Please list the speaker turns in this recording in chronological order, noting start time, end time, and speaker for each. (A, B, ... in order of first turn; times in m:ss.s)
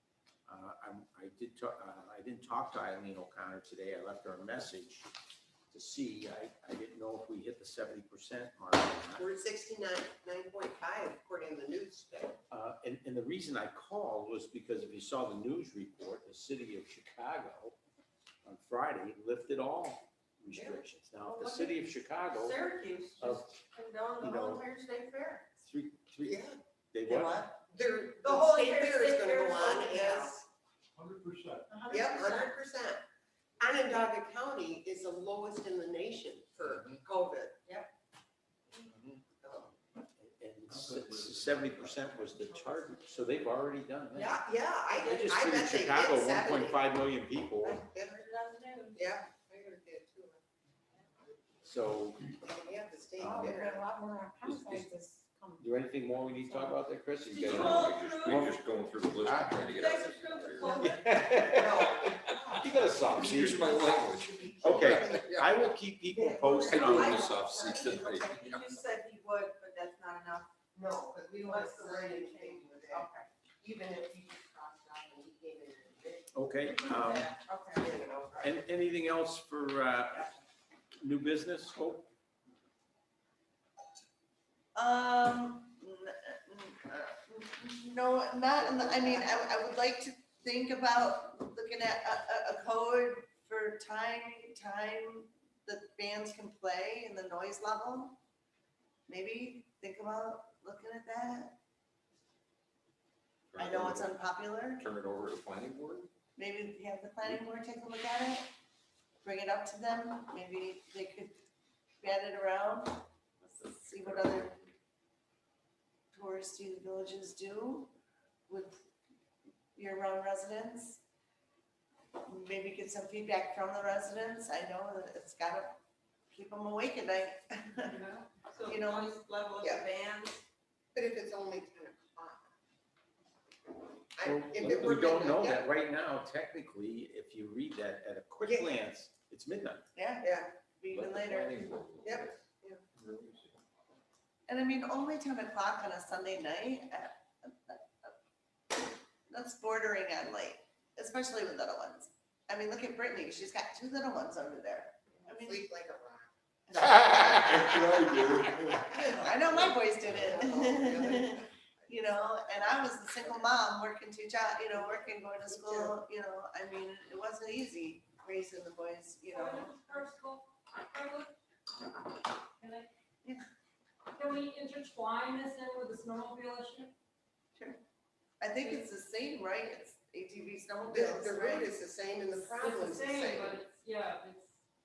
0:00.5-0:05.1 A
0:05.7-0:09.2 A
0:09.2-0:12.4 B
0:12.5-0:17.8 A
0:18.4-0:22.6 A
0:20.5-0:20.8 B
0:21.2-0:21.7 C
0:22.3-0:25.4 C
0:23.2-0:23.6 A
0:24.2-0:24.6 A
0:25.6-0:27.5 A
0:26.2-0:26.6 B
0:27.1-0:30.4 B
0:27.8-0:30.4 C
0:31.0-0:31.6 D
0:31.7-0:32.6 C
0:31.9-0:33.0 B
0:33.6-0:37.6 B
0:39.4-0:39.7 B
0:40.2-0:44.4 A
0:41.1-0:41.7 D
0:44.1-0:46.9 B
0:44.9-0:47.8 A
0:47.6-0:50.4 B
0:48.3-0:49.1 C
0:51.6-0:52.4 A
0:52.5-0:53.9 B
0:53.2-0:53.6 A
0:53.3-0:55.6 C
0:54.4-0:54.9 A
0:55.6-0:58.6 A
0:57.2-1:00.8 E
0:57.3-0:58.6 F
0:59.2-0:59.6 A
0:59.7-1:01.4 F
0:59.9-1:01.1 C
1:00.8-1:04.0 A
1:01.4-1:02.7 B
1:02.7-1:05.6 E
1:03.5-1:05.2 B
1:04.6-1:07.3 A
1:06.1-1:08.2 B
1:06.3-1:10.6 C
1:06.6-1:08.8 E
1:10.7-1:18.6 B
1:11.2-1:13.3 C
1:16.3-1:17.3 A
1:16.9-1:17.9 C
1:18.4-1:20.3 A
1:21.0-1:22.1 A
1:24.7-1:38.2 G
1:39.1-1:41.6 G
1:43.5-1:44.1 E
1:43.6-1:44.9 G
1:44.7-1:46.1 E
1:46.4-1:48.5 G
1:49.2-1:51.4 G
1:52.0-1:54.6 G
1:56.1-1:57.9 G
1:58.5-1:58.8 G
1:59.8-2:01.0 G
2:02.2-2:05.8 G
2:06.3-2:08.0 G
2:07.8-2:08.3 F
2:08.4-2:10.4 C
2:08.6-2:09.2 G
2:09.6-2:09.9 B
2:10.9-2:12.5 B
2:14.2-2:15.7 B
2:14.2-2:19.9 A
2:18.4-2:18.8 B
2:19.9-2:21.7 G
2:20.2-2:20.5 B
2:20.9-2:23.6 E
2:22.0-2:22.8 B
2:24.5-2:28.1 G
2:29.3-2:35.6 G
2:35.3-2:36.3 B
2:36.7-2:49.7 G
2:37.4-2:38.9 D
2:38.9-2:41.5 B
2:45.5-2:45.9 B
2:49.3-2:51.4 F
2:52.5-2:52.9 F
2:54.1-2:56.9 F
2:57.5-2:57.8 G
2:58.4-3:01.8 G
2:58.6-2:58.8 F
3:00.8-3:03.6 B
3:02.3-3:04.6 F